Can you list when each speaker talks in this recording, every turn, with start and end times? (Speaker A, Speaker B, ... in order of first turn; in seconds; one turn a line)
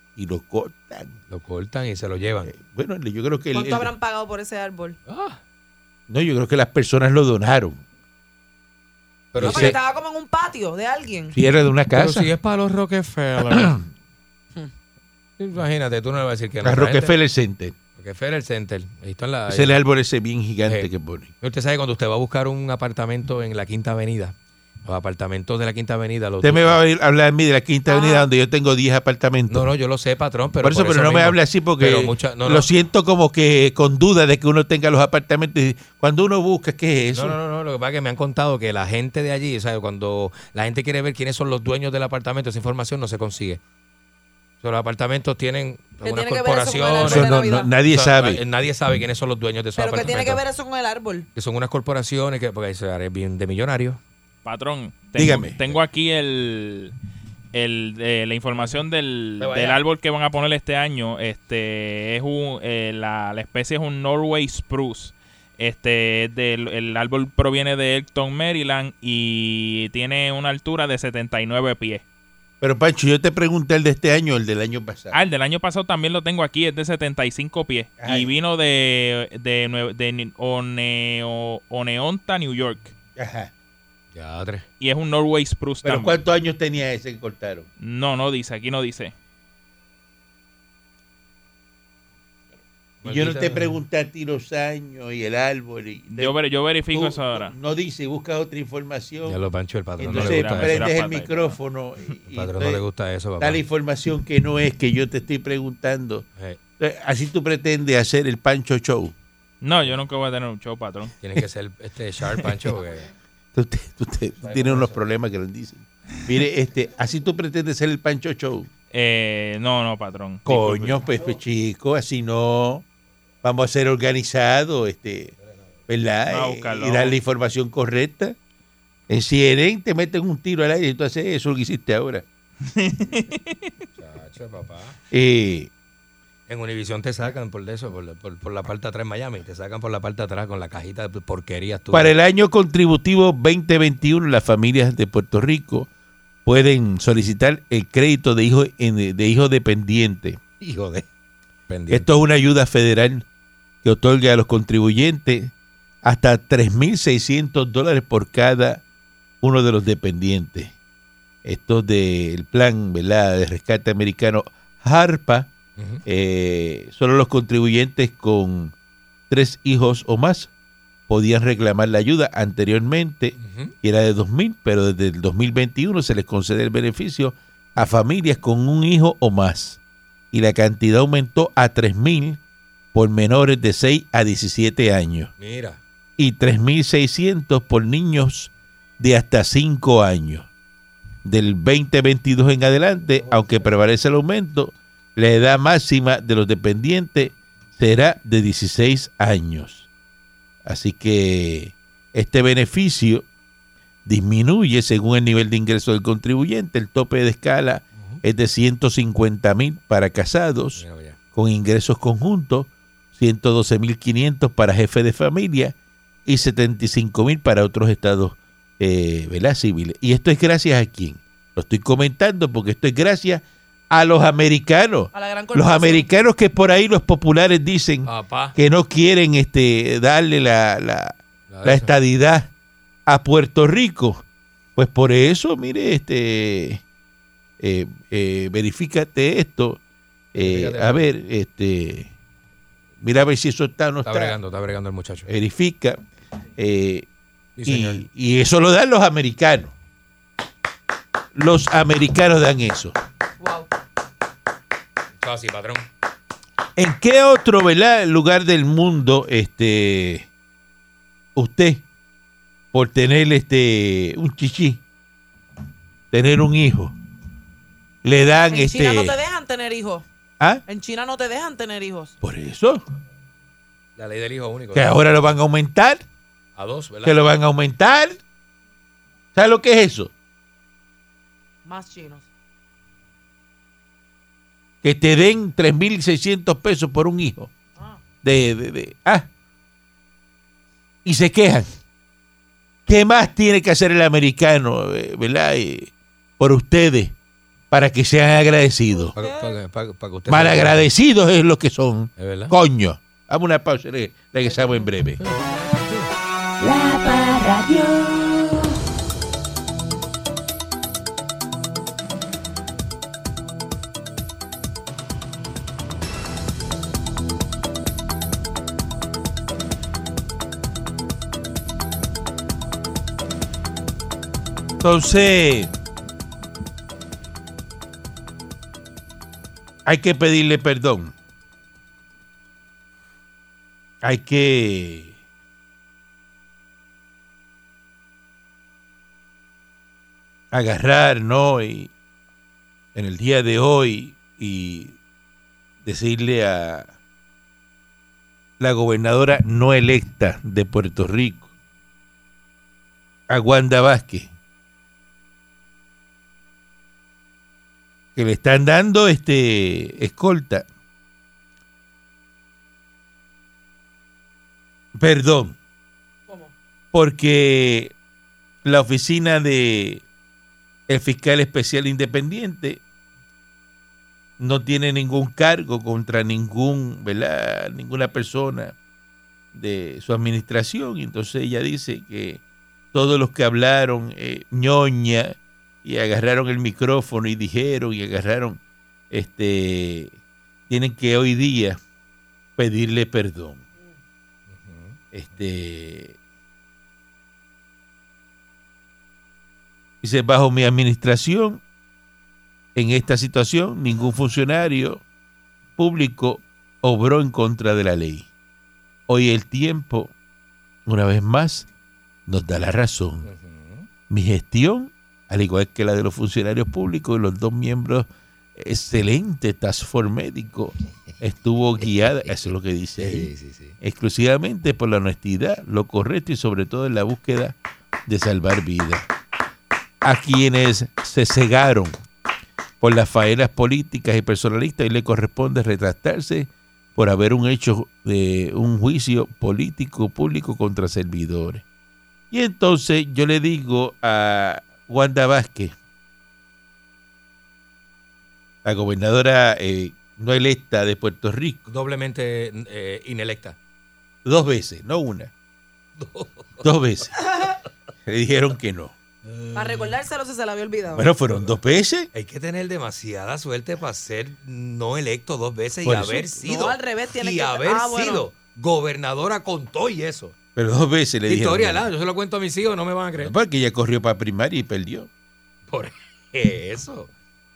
Speaker A: 0.2-1.1
Speaker B: 1.3-2.5
Speaker A: 2.5-3.9
Speaker C: 3.5-5.0
Speaker B: 5.1-5.4
Speaker A: 6.1-7.8
Speaker B: 9.3-9.8
Speaker A: 9.4-9.8
Speaker C: 9.4-11.4
Speaker A: 11.3-12.3
Speaker B: 11.9-13.8
Speaker A: 13.5-13.8
Speaker B: 15.4-17.1
Speaker A: 16.6-17.8
Speaker B: 18.0-19.8
Speaker A: 19.5-21.3
Speaker B: 21.4-26.8
Speaker A: 26.4-29.7
Speaker C: 27.9-28.3
Speaker B: 29.5-32.7
Speaker A: 30.6-37.4
Speaker B: 37.1-43.6
Speaker B: 44.6-47.4
Speaker C: 46.0-47.7
Speaker A: 47.0-48.4
Speaker B: 47.9-50.4
Speaker C: 49.8-51.3
Speaker B: 51.4-54.0
Speaker D: 54.5-56.9
Speaker A: 55.1-55.7
Speaker D: 57.5-72.0
Speaker B: 58.5-58.8
Speaker B: 59.4-59.8
Speaker A: 72.6-75.2
Speaker D: 75.1-82.9
Speaker A: 78.0-78.3
Speaker A: 83.2-83.5
Speaker B: 84.1-84.7
Speaker D: 84.8-86.2
Speaker A: 85.8-87.7
Speaker D: 87.8-89.1
Speaker B: 93.0-93.8
Speaker A: 93.0-96.3
Speaker D: 96.1-97.5
Speaker A: 96.9-99.4
Speaker B: 99.2-100.9
Speaker A: 100.0-102.8
Speaker D: 100.0-101.6
Speaker B: 102.3-103.6
Speaker A: 103.4-106.2
Speaker A: 106.8-109.1
Speaker D: 109.6-111.2
Speaker B: 111.2-113.1
Speaker A: 113.5-118.7
Speaker B: 114.4-115.0
Speaker D: 118.9-121.0
Speaker A: 120.5-122.8
Speaker A: 123.4-125.3
Speaker A: 125.9-128.4
Speaker D: 126.3-127.2
Speaker A: 129.1-132.2
Speaker D: 132.7-133.7
Speaker B: 134.0-135.0
Speaker A: 135.1-135.7
Speaker B: 136.5-142.1
Speaker A: 141.9-145.9
Speaker A: 146.5-150.4
Speaker B: 150.6-151.1
Speaker B: 151.7-152.1
Speaker A: 151.9-153.2
Speaker A: 153.8-155.5
Speaker A: 156.0-158.8
Speaker A: 159.4-160.7
Speaker A: 161.4-165.5
Speaker B: 165.8-166.0
Speaker A: 166.1-168.7
Speaker A: 169.3-170.5
Speaker A: 171.1-179.8
Speaker B: 173.4-173.7
Speaker A: 180.3-182.4
Speaker A: 182.9-185.3
Speaker B: 185.4-185.8
Speaker A: 186.2-190.5
Speaker A: 191.2-199.9
Speaker A: 200.7-203.2
Speaker A: 204.1-210.8
Speaker B: 210.8-211.2
Speaker A: 211.3-215.8
Speaker A: 216.3-232.5
Speaker C: 225.1-226.1
Speaker B: 228.1-228.6
Speaker B: 231.5-231.9
Speaker A: 233.1-234.2
Speaker A: 234.8-236.8
Speaker A: 237.6-239.8
Speaker A: 240.3-242.1
Speaker B: 240.4-241.1
Speaker A: 243.0-244.4
Speaker B: 244.1-245.3
Speaker A: 245.3-246.0
Speaker A: 246.6-247.1
Speaker B: 247.6-248.0
Speaker A: 247.7-249.7
Speaker A: 251.3-252.9
Speaker C: 253.4-253.7
Speaker B: 255.2-255.9
Speaker A: 256.8-260.3
Speaker A: 261.4-261.8
Speaker A: 262.7-264.8
Speaker A: 266.1-266.9
Speaker A: 268.0-269.2
Speaker C: 268.5-270.1
Speaker C: 270.7-272.1
Speaker A: 272.2-272.8
Speaker B: 274.0-274.9
Speaker A: 274.7-276.0
Speaker B: 276.6-277.2
Speaker A: 277.0-278.2
Speaker A: 279.3-280.1
Speaker C: 281.7-282.3
Speaker A: 284.8-287.5
Speaker A: 288.2-289.3
Speaker A: 291.1-291.7
Speaker A: 292.9-297.1
Speaker A: 297.7-299.2
Speaker C: 298.9-299.6
Speaker B: 299.2-300.8
Speaker A: 300.3-305.2
Speaker B: 302.2-302.6
Speaker B: 305.2-306.1
Speaker E: 306.6-308.6
Speaker A: 324.8-325.7
Speaker A: 329.9-331.1
Speaker A: 334.0-335.1
Speaker A: 340.5-341.9
Speaker A: 342.9-345.0
Speaker A: 345.8-346.9
Speaker A: 348.6-351.5
Speaker A: 353.3-354.3
Speaker A: 358.2-360.7
Speaker A: 364.9-365.6
Speaker A: 366.9-367.9
Speaker A: 368.6-370.0
Speaker A: 370.9-372.8
Speaker A: 374.4-378.8
Speaker A: 379.5-382.4
Speaker A: 382.9-388.6
Speaker A: 389.1-390.1
Speaker A: 390.7-391.8
Speaker A: 392.6-393.6
Speaker B: 394.5-395.0
Speaker A: 395.1-396.2
Speaker A: 400.0-401.6
Speaker A: 402.8-405.0
Speaker A: 405.8-408.3
Speaker A: 409.1-410.1
Speaker A: 410.9-411.7
Speaker A: 412.3-413.3
Speaker B: 413.2-413.9
Speaker A: 414.1-423.3
Speaker B: 423.0-423.8
Speaker A: 423.8-429.1
Speaker A: 430.0-432.0
Speaker A: 432.8-441.6
Speaker A: 442.3-445.7
Speaker A: 448.6-451.6
Speaker B: 451.7-453.6
Speaker A: 454.2-455.3
Speaker B: 456.0-456.6
Speaker A: 456.6-457.1
Speaker A: 458.1-458.9
Speaker B: 459.2-459.9
Speaker C: 459.5-461.1
Speaker A: 460.9-462.1
Speaker B: 462.1-470.4
Speaker A: 465.8-466.3
Speaker C: 466.4-468.3
Speaker A: 470.6-471.9
Speaker B: 471.3-473.3
Speaker A: 473.2-475.1
Speaker B: 475.7-477.1